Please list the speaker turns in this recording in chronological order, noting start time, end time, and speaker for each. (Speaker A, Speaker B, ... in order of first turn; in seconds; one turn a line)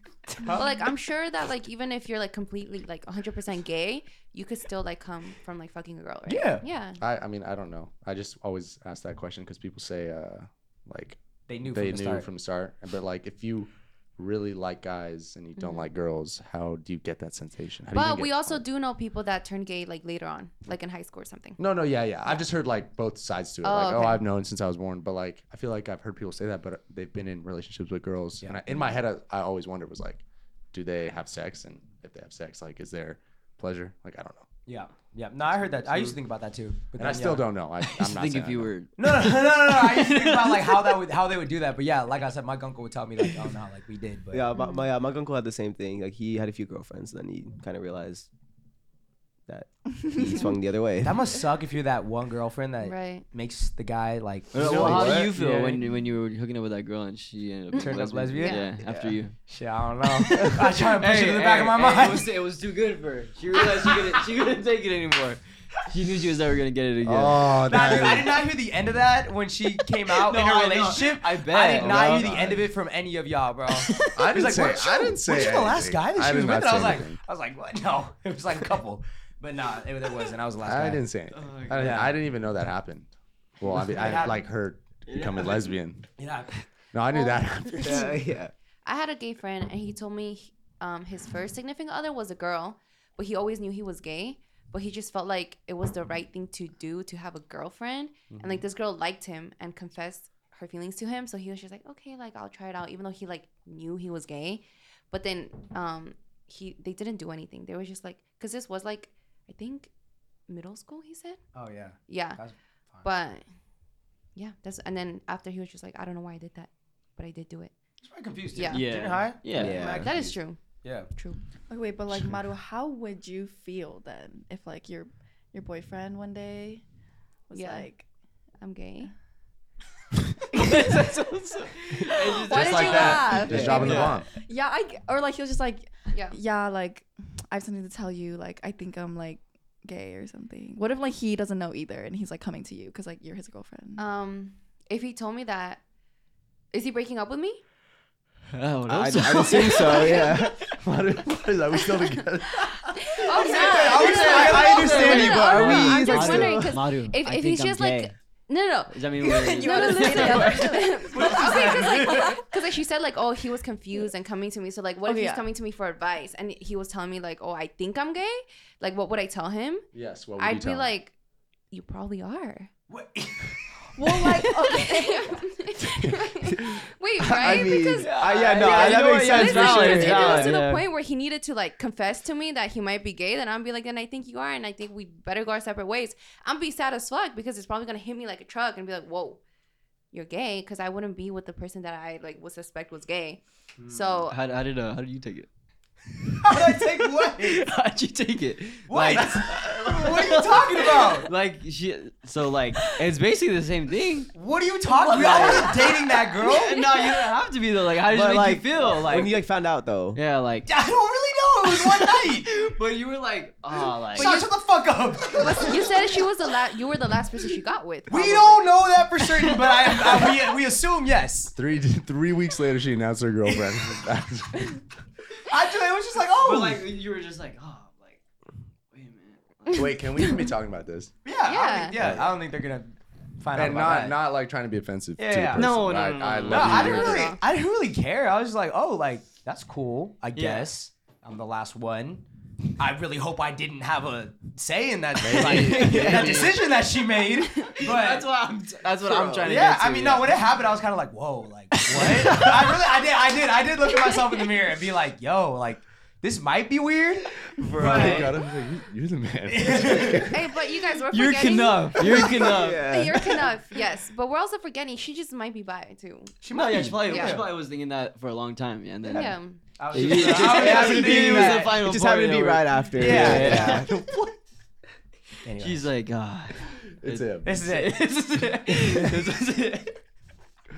Speaker A: 0.4-0.8
Speaker B: 0.5-7.0
Speaker A: 6.3-6.6
Speaker C: 7.0-18.6
Speaker A: 11.5-12.3
Speaker B: 15.6-15.9
Speaker B: 17.9-21.6
Speaker C: 21.6-34.5
Speaker B: 23.6-24.2
Speaker A: 34.7-37.5
Speaker C: 35.6-36.2
Speaker C: 37.0-38.7
Speaker D: 37.8-41.0
Speaker A: 39.0-44.4
Speaker E: 44.3-48.3
Speaker E: 49.5-51.2
Speaker F: 50.0-50.5
Speaker A: 51.0-55.8
Speaker B: 52.8-53.3
Speaker E: 54.5-55.3
Speaker D: 54.5-59.4
Speaker A: 57.8-58.6
Speaker B: 58.4-58.7
Speaker E: 58.8-59.2
Speaker A: 59.5-62.3
Speaker D: 60.2-68.1
Speaker C: 67.0-68.3
Speaker A: 67.7-81.0
Speaker D: 70.1-72.3
Speaker C: 71.8-72.7
Speaker D: 73.9-74.3
Speaker C: 74.1-77.2
Speaker C: 80.6-86.1
Speaker D: 81.3-82.2
Speaker A: 81.7-82.1
Speaker A: 83.7-84.4
Speaker D: 85.1-85.7
Speaker A: 86.2-86.6
Speaker C: 86.9-88.2
Speaker B: 87.1-88.2
Speaker E: 87.8-88.5
Speaker B: 88.8-109.9
Speaker C: 98.3-98.6
Speaker B: 110.5-111.4
Speaker A: 111.5-113.1
Speaker B: 112.1-112.4
Speaker B: 113.0-113.5
Speaker B: 114.3-117.7
Speaker A: 118.0-121.1
Speaker B: 118.5-118.8
Speaker D: 118.7-120.1
Speaker E: 119.5-120.2
Speaker B: 119.8-120.6
Speaker B: 121.1-121.4
Speaker F: 121.7-126.8
Speaker F: 127.5-128.1
Speaker B: 127.5-127.9
Speaker B: 128.6-129.1
Speaker D: 130.5-134.2
Speaker F: 130.6-144.0
Speaker B: 132.5-133.2
Speaker C: 132.5-134.3
Speaker E: 133.5-134.1
Speaker B: 144.0-145.8
Speaker B: 146.7-147.6
Speaker D: 148.5-150.6
Speaker E: 148.9-150.6
Speaker C: 150.8-152.7
Speaker B: 152.8-169.9
Speaker D: 153.3-158.1
Speaker F: 153.4-154.6
Speaker A: 153.4-155.3
Speaker E: 153.5-156.8
Speaker D: 158.9-161.4
Speaker F: 159.2-162.4
Speaker A: 161.1-162.4
Speaker F: 165.1-165.4
Speaker C: 169.9-170.9
Speaker B: 170.4-171.1
Speaker B: 171.7-172.7
Speaker A: 172.9-173.6
Speaker F: 173.9-175.4
Speaker B: 174.1-189.4
Speaker E: 176.4-180.6
Speaker D: 177.9-180.9
Speaker A: 178.4-180.0
Speaker B: 190.1-194.4
Speaker A: 193.8-194.0
Speaker D: 194.3-195.5
Speaker D: 196.3-204.3
Speaker A: 196.4-197.6
Speaker A: 198.9-201.3
Speaker A: 204.3-206.9
Speaker F: 205.1-205.8
Speaker E: 205.2-205.7
Speaker D: 205.2-205.8
Speaker D: 206.3-209.4
Speaker E: 208.1-210.2
Speaker D: 210.1-210.7
Speaker A: 210.7-212.5
Speaker D: 211.7-214.4
Speaker A: 214.1-216.0
Speaker B: 214.1-214.5
Speaker B: 215.4-218.8
Speaker D: 215.5-216.1
Speaker A: 218.1-221.5
Speaker C: 221.6-224.8
Speaker A: 223.5-224.0
Speaker A: 225.5-226.9
Speaker D: 226.4-228.2
Speaker D: 228.9-229.9
Speaker B: 229.7-230.4
Speaker C: 229.7-231.1
Speaker A: 231.2-234.2
Speaker B: 231.5-232.0
Speaker C: 231.9-232.3
Speaker C: 233.5-237.4
Speaker A: 235.2-235.8
Speaker D: 235.5-237.1
Speaker A: 236.5-242.2
Speaker B: 236.7-237.4
Speaker D: 240.3-240.7
Speaker A: 242.8-248.3
Speaker C: 245.2-246.6
Speaker D: 245.6-246.2
Speaker D: 247.6-250.3
Speaker E: 249.0-249.5
Speaker A: 249.4-258.3
Speaker D: 251.8-252.8
Speaker D: 257.6-258.3
Speaker C: 257.8-260.4
Speaker E: 257.9-258.2
Speaker A: 259.5-260.3
Speaker B: 260.1-266.4
Speaker D: 261.1-262.9
Speaker E: 262.0-263.4
Speaker A: 266.4-267.5
Speaker D: 266.5-269.4
Speaker B: 267.0-267.4
Speaker B: 269.1-269.6
Speaker A: 269.8-271.8
Speaker D: 269.9-274.0
Speaker E: 269.9-273.9
Speaker A: 272.9-274.3
Speaker A: 275.4-275.9
Speaker D: 275.6-280.0
Speaker C: 277.0-277.6
Speaker A: 277.4-278.0
Speaker A: 278.8-279.1